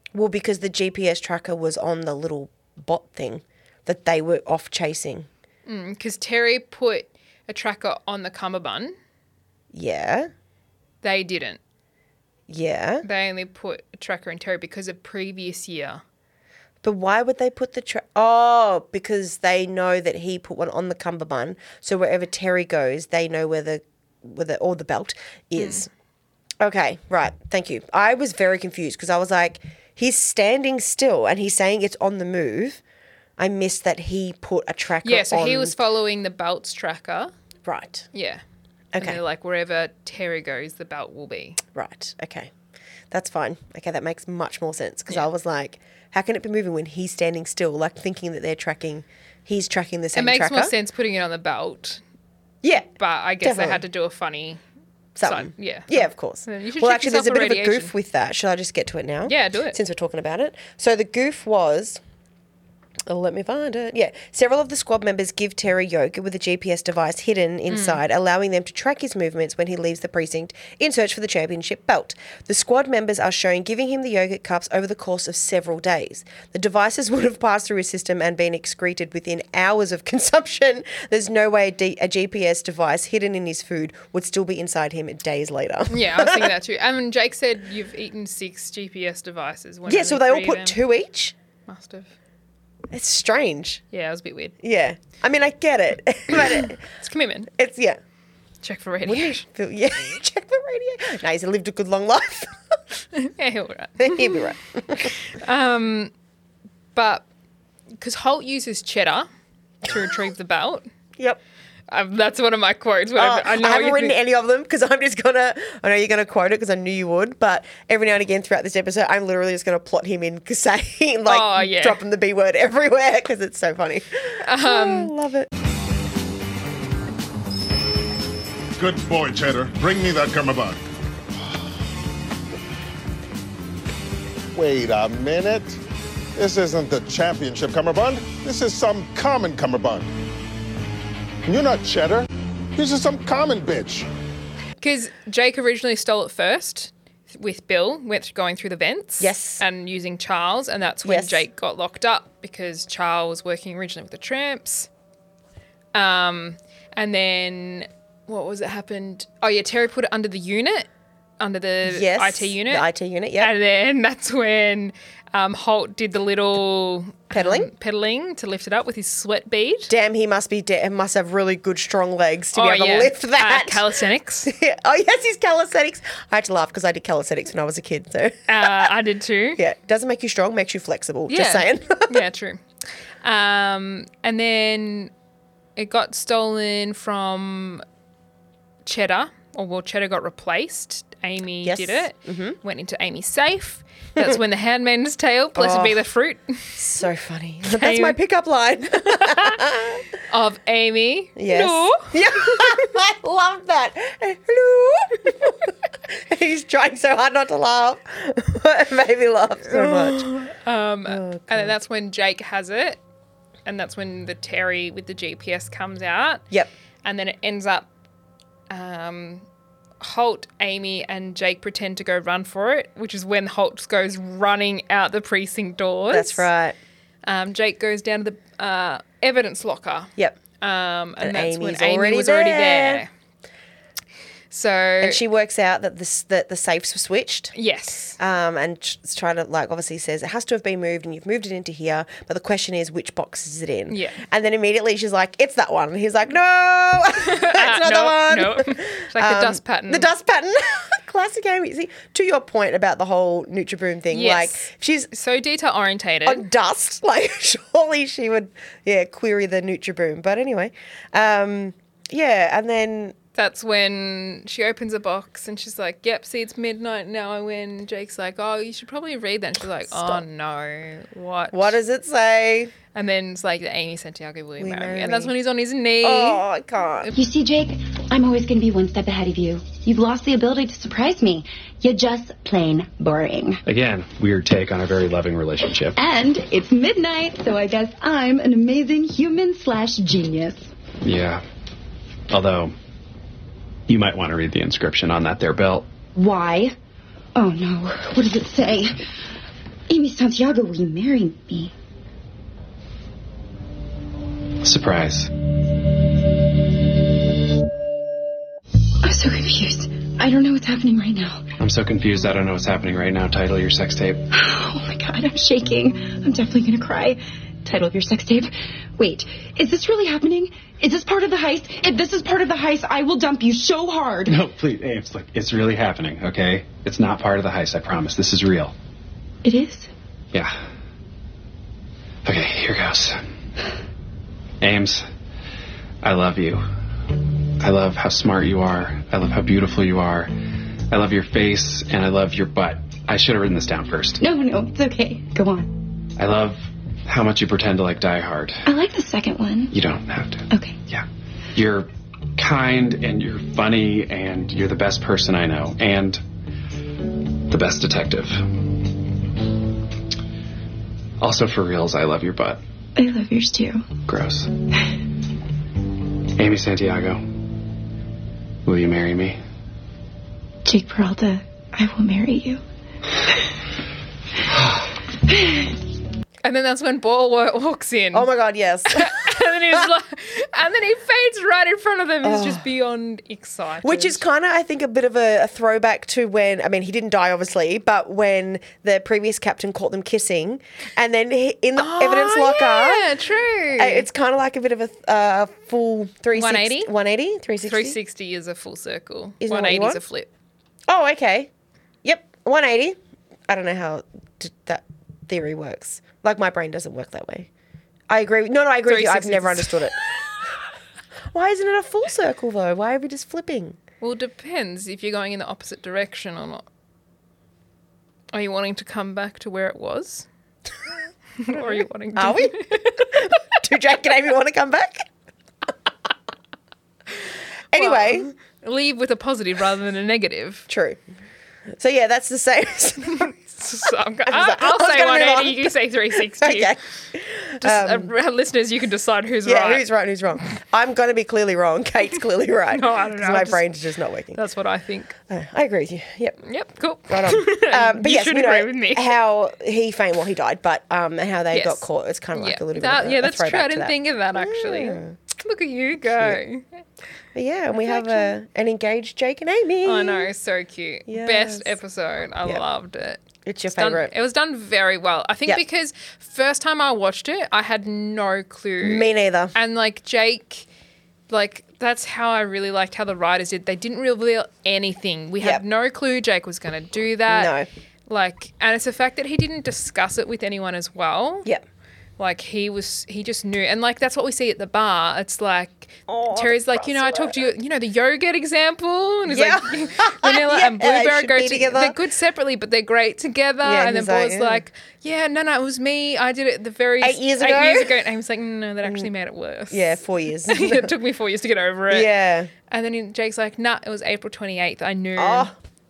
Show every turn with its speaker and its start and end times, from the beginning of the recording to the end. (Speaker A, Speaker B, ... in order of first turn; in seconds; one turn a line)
Speaker A: 0.1-5.3
Speaker B: 5.7-8.9
Speaker A: 9.7-10.3
Speaker B: 11.0-11.6
Speaker A: 12.5-13.0
Speaker B: 13.0-16.0
Speaker A: 16.8-25.9
Speaker B: 25.6-25.8
Speaker A: 26.6-32.8
Speaker A: 33.4-35.8
Speaker B: 35.0-37.3
Speaker A: 37.6-38.0
Speaker B: 38.1-38.4
Speaker A: 38.9-39.2
Speaker B: 39.0-41.6
Speaker A: 41.7-42.5
Speaker A: 43.1-50.7
Speaker B: 50.1-52.0
Speaker A: 52.6-52.9
Speaker B: 53.0-54.6
Speaker A: 53.4-53.8
Speaker A: 55.1-62.0
Speaker B: 55.2-57.9
Speaker B: 59.2-59.8
Speaker A: 63.1-86.5
Speaker B: 67.7-68.0
Speaker B: 85.9-90.8
Speaker A: 89.8-91.3
Speaker B: 91.7-92.1
Speaker A: 92.9-93.8
Speaker B: 93.9-94.5
Speaker A: 94.6-96.8
Speaker B: 96.9-97.5
Speaker A: 97.5-98.0
Speaker B: 98.6-99.4
Speaker A: 99.0-102.6
Speaker B: 103.1-106.1
Speaker A: 104.0-105.1
Speaker B: 106.9-107.2
Speaker B: 108.0-109.3
Speaker B: 109.8-110.8
Speaker B: 111.9-114.2
Speaker A: 113.2-125.5
Speaker B: 121.2-122.0
Speaker B: 124.4-125.1
Speaker C: 128.8-130.8
Speaker C: 134.5-135.8
Speaker C: 136.4-140.1
Speaker C: 141.4-144.1
Speaker B: 144.8-154.9
Speaker A: 149.2-149.6
Speaker A: 151.0-151.4
Speaker B: 155.9-160.9
Speaker B: 161.4-162.8
Speaker A: 161.8-163.5
Speaker B: 163.4-169.9
Speaker A: 167.3-167.7
Speaker A: 169.9-178.9
Speaker B: 172.5-174.5
Speaker B: 178.5-179.6
Speaker A: 179.6-182.2
Speaker B: 181.3-182.6
Speaker B: 183.2-185.1
Speaker B: 185.8-187.8
Speaker B: 188.8-196.8
Speaker A: 191.6-192.6
Speaker A: 195.6-196.0
Speaker A: 196.8-200.0
Speaker B: 197.8-198.2
Speaker B: 199.1-199.6
Speaker B: 200.3-202.1
Speaker A: 201.3-210.3
Speaker B: 209.6-213.0
Speaker A: 211.1-211.7
Speaker B: 213.6-216.4
Speaker B: 217.0-217.9
Speaker B: 218.7-219.4
Speaker B: 220.0-226.5
Speaker A: 226.1-226.8
Speaker B: 227.2-233.1
Speaker A: 231.2-233.0
Speaker B: 234.5-235.2
Speaker A: 235.0-237.5
Speaker B: 237.5-238.2
Speaker A: 238.2-255.1
Speaker B: 243.9-244.2
Speaker B: 247.2-250.1
Speaker B: 254.1-256.4
Speaker A: 256.2-263.1
Speaker B: 263.4-271.8
Speaker A: 269.9-270.2
Speaker A: 271.5-272.7
Speaker B: 272.9-276.4
Speaker A: 274.6-275.3
Speaker A: 276.0-277.1
Speaker D: 277.1-283.6
Speaker E: 283.6-286.0
Speaker D: 286.0-290.7
Speaker E: 291.0-291.4
Speaker E: 292.3-292.7
Speaker E: 293.9-295.9
Speaker D: 296.1-296.7
Speaker D: 297.3-298.9
Speaker D: 299.9-301.7
Speaker E: 304.6-305.3
Speaker D: 309.0-311.4
Speaker E: 311.6-314.3
Speaker D: 314.3-324.4
Speaker E: 324.3-328.7
Speaker D: 329.4-329.9
Speaker E: 332.2-333.2
Speaker E: 334.6-335.0
Speaker E: 336.0-336.6
Speaker E: 337.6-340.3
Speaker E: 340.9-344.2
Speaker D: 344.2-345.8
Speaker E: 346.2-348.6
Speaker D: 348.6-349.7
Speaker E: 349.7-356.2
Speaker D: 350.5-350.8
Speaker E: 357.5-358.6
Speaker E: 361.2-362.6
Speaker D: 362.9-363.8
Speaker E: 364.1-364.5
Speaker E: 366.4-367.2
Speaker E: 368.6-369.4
Speaker D: 370.6-372.6
Speaker D: 375.3-375.7
Speaker B: 376.4-378.3
Speaker A: 378.1-379.8
Speaker B: 378.9-384.2
Speaker A: 382.2-382.6
Speaker A: 383.8-393.1
Speaker B: 391.8-394.1
Speaker A: 393.8-398.0
Speaker B: 396.3-396.9
Speaker B: 397.6-400.3
Speaker A: 399.4-400.0
Speaker A: 400.9-401.5
Speaker A: 402.0-403.0
Speaker A: 403.5-407.5
Speaker A: 408.1-410.2
Speaker B: 408.9-409.9
Speaker A: 411.3-413.8
Speaker B: 414.0-416.6
Speaker B: 418.3-420.3
Speaker B: 421.4-423.2
Speaker A: 421.5-425.1
Speaker A: 427.7-428.3
Speaker B: 427.7-430.7
Speaker A: 430.7-431.0
Speaker A: 431.7-433.3
Speaker B: 433.2-436.7
Speaker A: 434.2-438.1
Speaker B: 437.6-439.8
Speaker A: 439.4-444.4
Speaker B: 442.7-443.6
Speaker B: 444.3-445.1
Speaker A: 445.3-446.4
Speaker B: 446.4-449.1
Speaker A: 447.1-455.1
Speaker B: 451.5-456.6
Speaker A: 457.3-460.3
Speaker B: 457.7-458.3
Speaker B: 459.8-463.2
Speaker A: 461.1-461.7
Speaker A: 463.4-464.1
Speaker B: 463.7-470.6
Speaker A: 468.8-469.5
Speaker B: 471.3-477.5
Speaker A: 477.3-477.7
Speaker B: 478.1-481.5
Speaker B: 482.2-502.1
Speaker A: 486.1-487.5
Speaker A: 489.2-491.9
Speaker A: 493.6-494.6
Speaker A: 497.0-497.9
Speaker A: 498.8-499.1
Speaker A: 499.7-500.9
Speaker A: 501.9-502.5
Speaker B: 502.7-505.5
Speaker A: 505.1-505.6